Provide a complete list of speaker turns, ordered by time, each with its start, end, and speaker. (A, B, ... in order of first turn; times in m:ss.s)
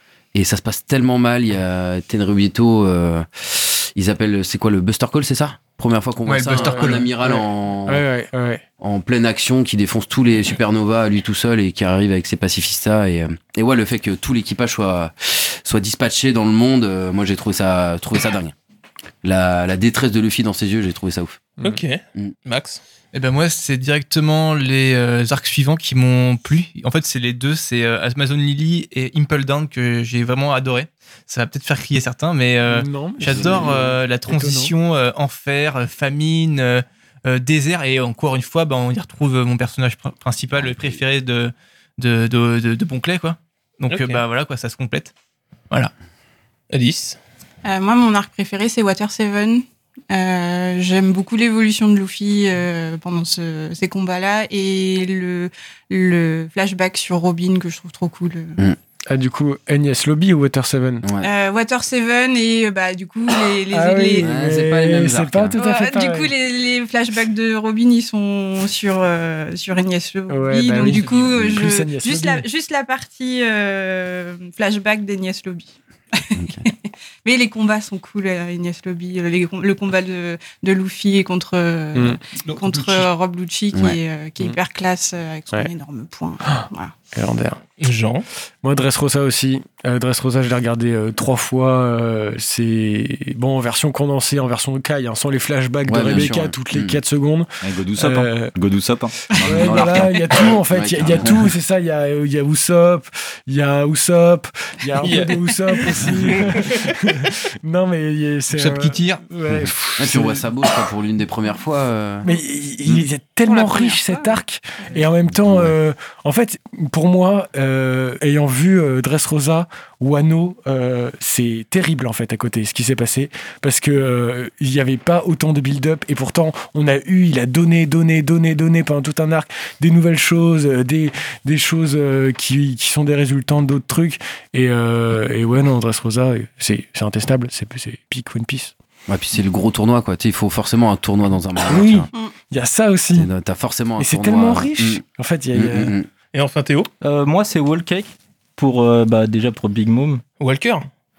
0:00.3-0:08.0 A
0:06.2-0:07.1 B
0:06.5-0:08.6 C
0:08.8-0:18.5 A
0:19.2-0:21.4 A
0:21.6-0:22.8 D
0:23.1-0:45.1 B
0:32.6-0:34.7 C
0:33.2-0:33.9 A
0:43.9-0:44.2 D
0:46.7-0:47.2 D
0:47.6-0:58.6 E
0:59.1-1:01.0 C
1:01.0-1:01.3 A
1:01.2-1:04.3 E
1:03.7-1:06.3 C
1:04.2-1:05.6 A
1:05.6-1:26.9 E
1:10.3-1:12.5 C
1:16.3-1:16.7 A
1:21.9-1:22.2 C
1:23.7-1:24.0 A
1:26.5-1:27.6 C
1:27.8-1:28.2 D
1:28.6-1:38.6 C
1:35.8-1:37.0 A
1:37.6-1:40.5 F
1:39.3-1:50.5 C
1:39.5-1:41.5 A
1:45.0-1:46.8 D
1:48.5-1:49.2 B
1:50.0-1:52.2 A
1:52.2-2:18.7 C
1:53.4-1:55.0 E
1:55.5-1:55.7 A
2:19.1-2:22.1 A
2:21.7-2:23.3 C
2:23.1-2:26.1 A
2:24.0-2:25.9 C
2:26.3-2:26.9 D
2:27.0-2:30.2 G
2:30.4-2:30.9 D